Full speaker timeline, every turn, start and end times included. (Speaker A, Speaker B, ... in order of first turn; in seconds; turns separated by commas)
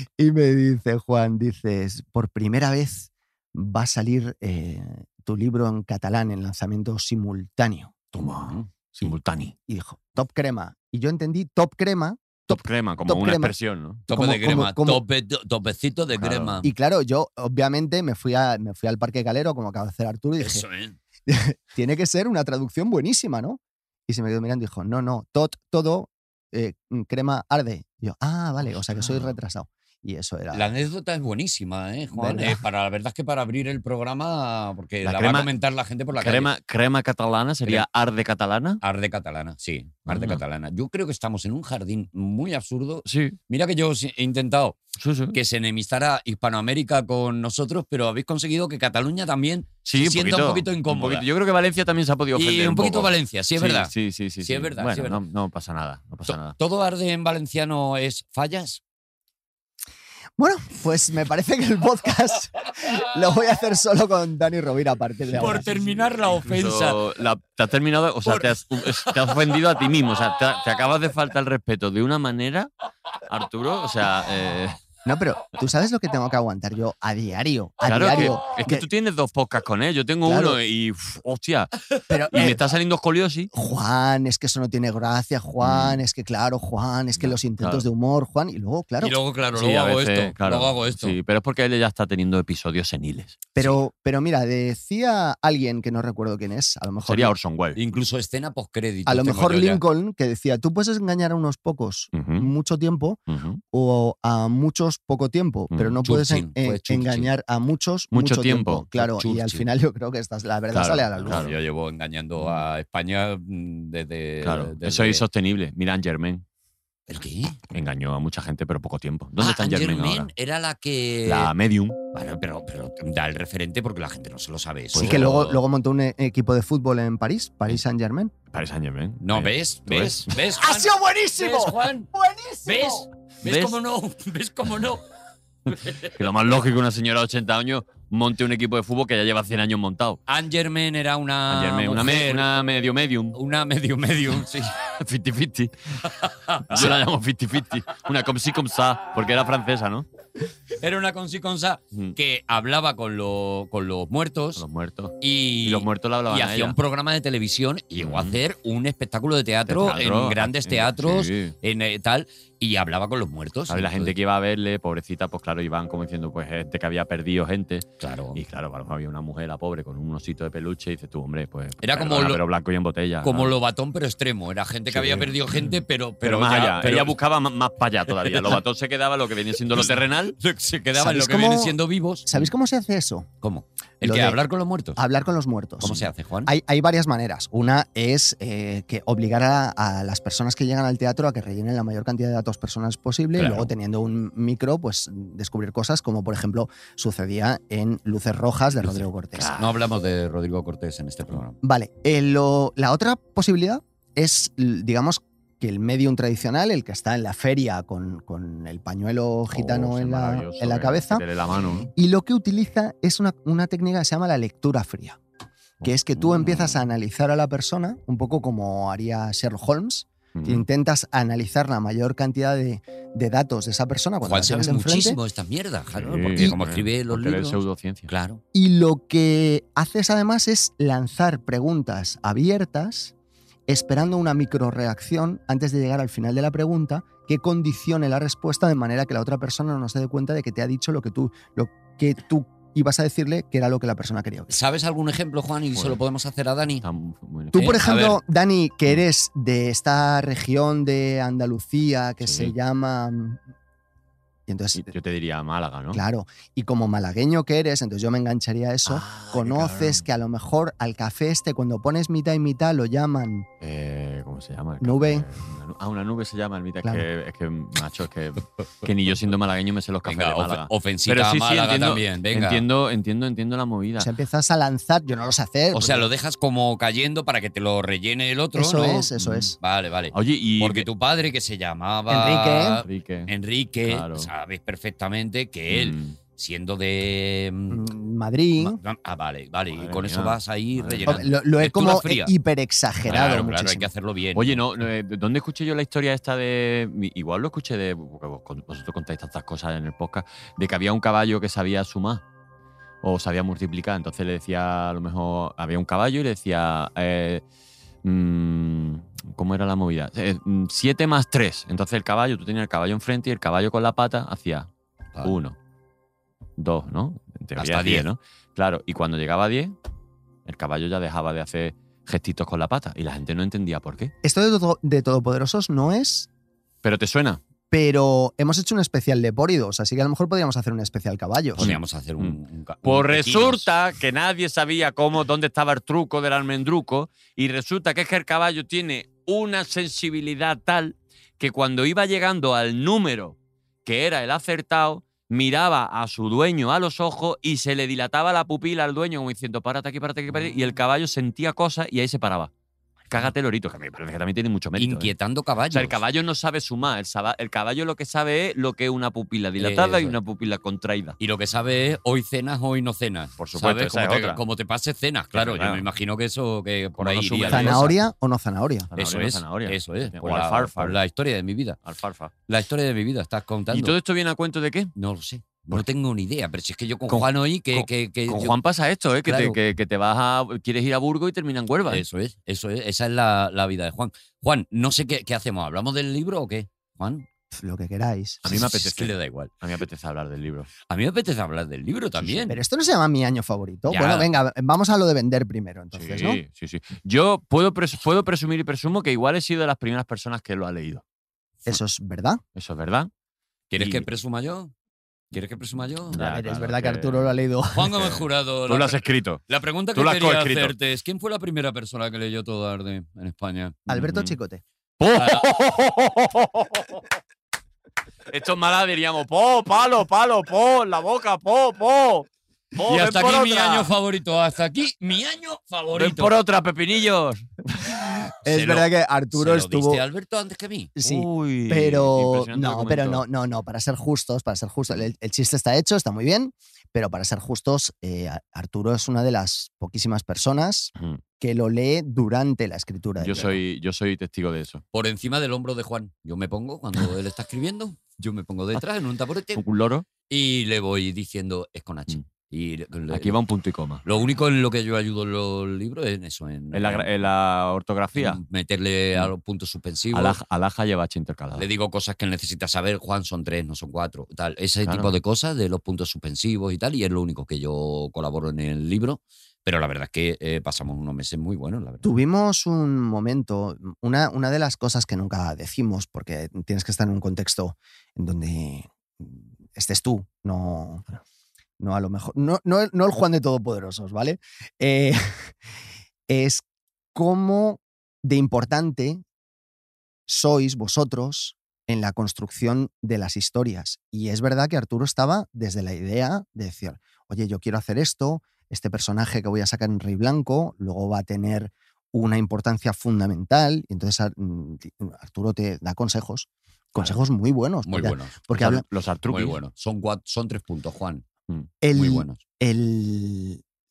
Speaker A: 0.2-7.9, Speaker B: 8.1-9.5, Speaker C: 8.2-8.7, Speaker A: 9.7-13.5, Speaker B: 12.5-14.0, Speaker A: 14.1-15.0, Speaker C: 14.1-16.7, Speaker B: 16.1-16.6, Speaker A: 16.6-20.6, Speaker C: 20.4-21.0, Speaker A: 21.3-30.7, Speaker B: 29.0-29.3, Speaker C: 30.5-36.5, Speaker A: 32.1-32.6, Speaker B: 35.0-35.5, Speaker B: 36.1-38.8, Speaker C: 38.8-44.8, Speaker B: 40.1-40.4, Speaker B: 43.0-43.4, Speaker B: 45.0-45.4, Speaker C: 45.3-51.2, Speaker B: 49.9-56.6, Speaker C: 52.3-55.2, Speaker C: 56.3-58.8, Speaker A: 60.4-65.7, Speaker B: 65.3-72.7, Speaker C: 65.4-67.0, Speaker B: 73.3-74.8, Speaker A: 75.0-78.8, Speaker B: 77.8-81.7, Speaker A: 80.2-80.6, Speaker A: 82.1-82.6, Speaker B: 82.3-83.5, Speaker A: 83.5-89.2, Speaker B: 85.6-86.0, Speaker B: 87.2-87.9, Speaker C: 89.0-91.2, Speaker B: 89.5-93.5, Speaker A: 93.5-97.3, Speaker B: 97.0-97.8, Speaker C: 97.7-99.8, Speaker A: 99.0-103.2, Speaker B: 102.1-102.5, Speaker B: 103.3-103.6, Speaker A: 103.7-111.5, Speaker B: 105.7-106.0, Speaker C: 106.0-107.3, Speaker B: 108.1-108.9, Speaker C: 109.0-109.7, Speaker B: 110.7-111.5, Speaker C: 111.2-115.2, Speaker B: 112.4-112.6, Speaker B: 114.4-116.4, Speaker C: 117.1-117.7, Speaker B: 117.7-120.3, Speaker C: 119.4-121.5, Speaker B: 121.2-122.0, Speaker C: 122.1-125.2, Speaker B: 124.9-125.6, Speaker A: 124.9-128.3, Speaker B: 128.5-130.3, Speaker C: 129.2-132.1, Speaker A: 130.6-133.0, Speaker C: 132.6-135.0, Speaker B: 133.4-133.8, Speaker C: 135.7-136.2, Speaker B: 136.0-140.2, Speaker C: 140.3-142.5, Speaker B: 141.5-143.3, Speaker C: 143.3-144.8, Speaker B: 145.0-146.1, Speaker C: 146.0-147.0, Speaker B: 146.7-150.1, Speaker C: 150.8-154.6, Speaker B: 154.6-156.8, Speaker C: 155.2-164.1, Speaker B: 158.0-158.4, Speaker B: 159.7-161.5, Speaker B: 163.7-173.6, Speaker C: 168.0-168.4, Speaker C: 171.8-172.4, Speaker C: 173.2-177.2, Speaker B: 174.9-180.3, Speaker C: 178.2-178.6, Speaker C: 179.7-182.3, Speaker A: 180.9-183.3, Speaker C: 183.4-185.0, Speaker A: 184.0-184.4, Speaker A: 184.9-199.5, Speaker C: 185.8-186.5, Speaker B: 198.8-199.8, Speaker C: 199.6-201.6, Speaker A: 201.6-211.2, Speaker B: 209.5-211.9, Speaker A: 211.8-215.2, Speaker A: 215.8-225.2, Speaker B: 216.4-216.7, Speaker B: 220.3-220.6, Speaker C: 224.2-228.4, Speaker B: 226.0-228.1, Speaker A: 228.5-233.1, Speaker A: 233.7-244.5, Speaker C: 244.5-246.8, Speaker B: 246.8-247.8, Speaker A: 247.5-253.4, Speaker C: 247.5-248.2, Speaker B: 252.2-252.5, Speaker A: 254.5-254.9, Speaker B: 254.7-256.0, Speaker A: 255.9-263.5, Speaker B: 258.9-260.1, Speaker B: 263.6-274.1, Speaker A: 264.8-265.3, Speaker C: 270.1-272.6, Speaker A: 274.0-276.1, Speaker C: 275.7-287.8, Speaker A: 278.5-279.5, Speaker B: 279.2-279.5, Speaker B: 280.1-280.9, Speaker A: 282.1-282.8, Speaker B: 282.8-283.3, Speaker B: 283.8-284.3, Speaker B: 285.7-286.2, Speaker A: 287.7-288.8, Speaker C: 288.6-292.3, Speaker B: 289.7-291.3, Speaker A: 291.1-293.9, Speaker C: 293.1-294.6, Speaker B: 294.3-302.2, Speaker B: 303.0-307.4, Speaker B: 308.0-314.7, Speaker B: 315.2-315.5, Speaker B: 316.6-319.7, Speaker C: 317.6-318.1, Speaker B: 320.4-324.1, Speaker A: 324.2-326.3, Speaker B: 326.8-327.4, Speaker A: 327.7-331.7, Speaker B: 331.6-352.5, Speaker C: 331.6-333.7, Speaker B: 353.1-355.1, Speaker C: 354.8-356.0, Speaker B: 355.7-361.2, Speaker C: 359.6-360.2, Speaker C: 361.2-367.9, Speaker B: 363.4-364.4, Speaker B: 365.3-365.8, Speaker B: 367.0-368.0, Speaker A: 367.5-368.9, Speaker B: 368.9-371.0, Speaker C: 369.0-371.8, Speaker B: 371.8-372.3, Speaker C: 372.5-373.9, Speaker B: 373.7-374.9, Speaker C: 374.9-378.6, Speaker B: 377.1-382.0, Speaker C: 379.2-379.6, Speaker C: 381.9-387.3, Speaker A: 387.5-388.6, Speaker B: 388.4-390.7, Speaker C: 388.5-389.5, Speaker C: 390.9-392.6, Speaker B: 392.2-392.5, Speaker A: 392.5-396.4, Speaker C: 393.9-394.1, Speaker B: 393.9-394.3, Speaker B: 395.9-401.0, Speaker A: 401.7-402.4, Speaker B: 402.6-403.1, Speaker C: 403.7-404.7, Speaker B: 403.8-404.1, Speaker C: 405.3-406.2, Speaker B: 406.1-407.4, Speaker A: 406.1-407.9, Speaker C: 407.7-413.8, Speaker B: 407.9-410.7, Speaker A: 413.9-414.6, Speaker B: 413.9-414.4, Speaker B: 415.0-417.0, Speaker C: 415.1-415.4, Speaker B: 418.3-423.9, Speaker C: 422.8-426.4, Speaker B: 425.9-427.9, Speaker A: 428.4-430.0, Speaker C: 428.5-430.9, Speaker A: 431.0-443.6, Speaker B: 431.0-433.2, Speaker B: 443.2-444.8, Speaker C: 444.9-449.6, Speaker B: 449.6-450.1, Speaker C: 450.3-453.4, Speaker B: 453.1-454.0, Speaker C: 454.0-457.2, Speaker B: 456.7-458.4, Speaker C: 458.1-460.4, Speaker B: 460.1-461.7, Speaker C: 461.6-472.1, Speaker B: 464.8-465.1, Speaker A: 472.0-481.0, Speaker A: 481.8-485.5, Speaker A: 486.3-489.2, Speaker A: 490.3-508.8, Speaker C: 507.9-508.4, Speaker B: 508.5-509.6, Speaker C: 509.3-511.2, Speaker A: 511.8-513.6, Speaker C: 511.9-512.4